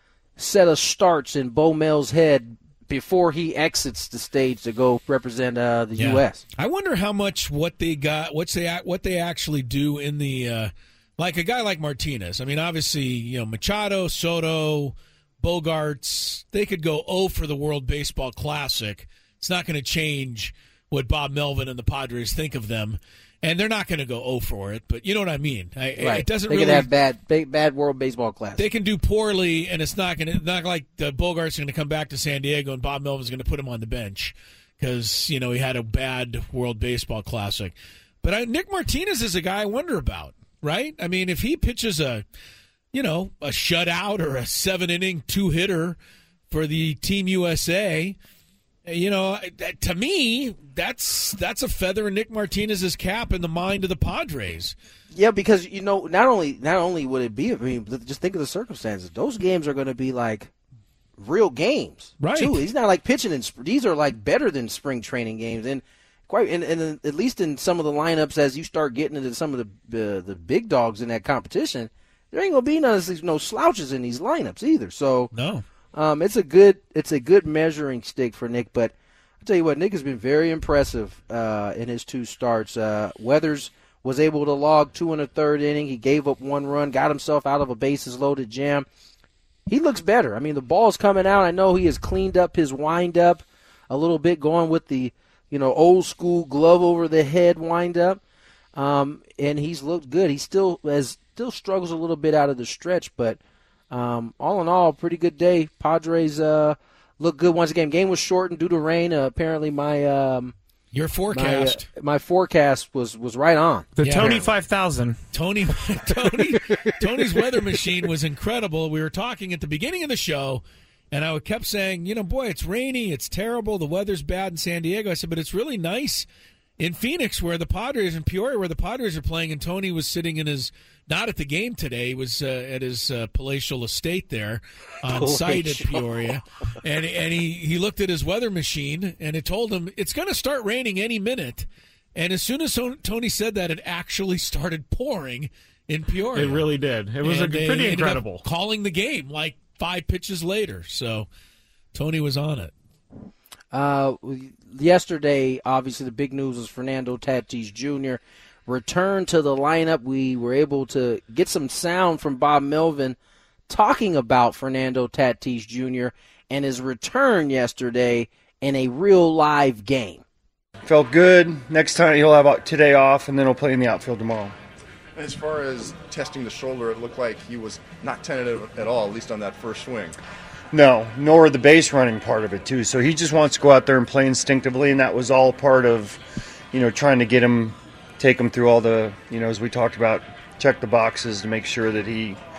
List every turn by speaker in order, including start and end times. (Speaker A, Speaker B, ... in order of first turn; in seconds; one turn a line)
Speaker A: 0.4-6.4
Speaker B: 6.0-26.9
Speaker A: 26.0-28.6
Speaker B: 28.6-42.2
Speaker B: 42.9-46.0
Speaker B: 46.5-48.2
Speaker B: 48.9-54.8
Speaker A: 55.1-60.5
Speaker A: 61.2-75.3
Speaker B: 62.2-62.7
Speaker B: 75.3-75.6
Speaker A: 75.9-88.9
Speaker A: 89.7-98.2
Speaker A: 98.8-103.4
Speaker A: 103.9-110.5
Speaker B: 110.9-111.9
Speaker A: 111.3-114.4
Speaker C: 114.0-115.2
Speaker B: 114.0-114.4
Speaker B: 115.3-126.3
Speaker A: 116.6-116.9
Speaker B: 126.8-146.7
Speaker A: 135.1-136.3
Speaker C: 146.3-148.4
Speaker B: 147.2-151.3
Speaker B: 151.9-152.7
Speaker A: 153.7-163.2
Speaker A: 163.7-170.2
Speaker D: 170.8-174.6
Speaker E: 175.2-180.2
Speaker D: 180.7-186.2
Speaker D: 186.7-192.4